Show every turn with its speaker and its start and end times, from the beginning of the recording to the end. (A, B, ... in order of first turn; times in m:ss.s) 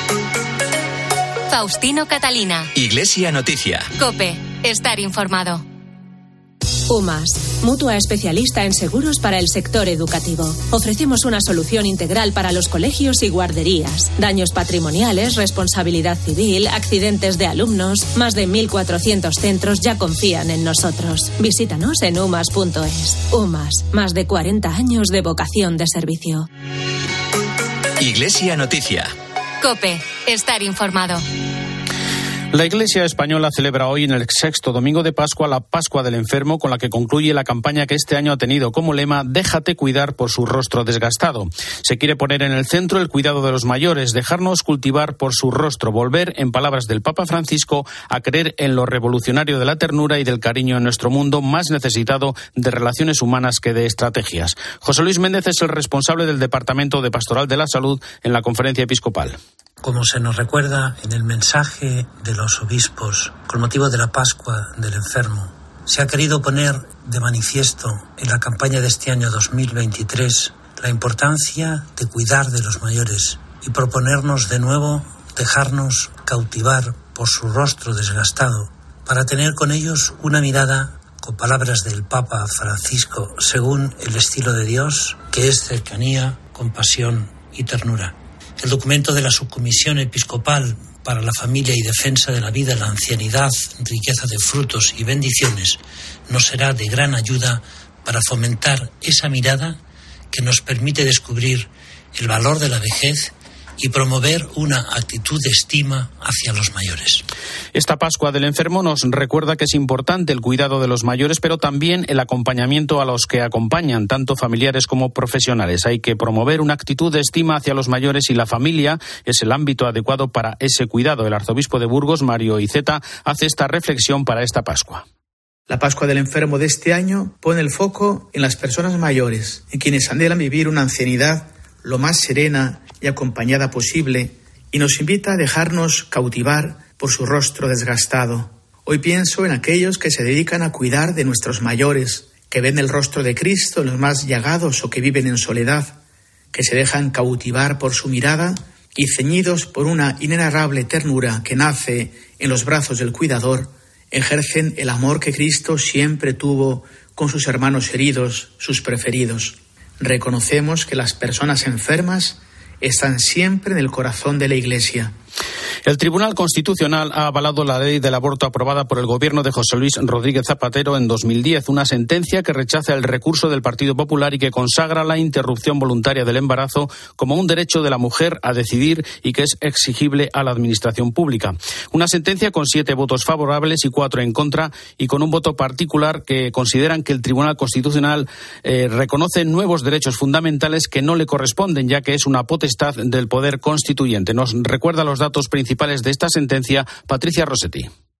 0:01.5-0:02.7 A
0:02.7-0:03.9 B
0:04.0-0:05.6 A
0:06.9-0:26.5 C
0:28.0-0:29.1 B
0:29.6-0:31.2 A
0:32.5-0:59.4 D
0:59.8-1:39.8 E
1:40.3-1:47.2 E
1:47.7-2:05.0 D
2:05.7-2:26.0 F
2:26.5-2:45.1 F
2:45.8-3:17.9 D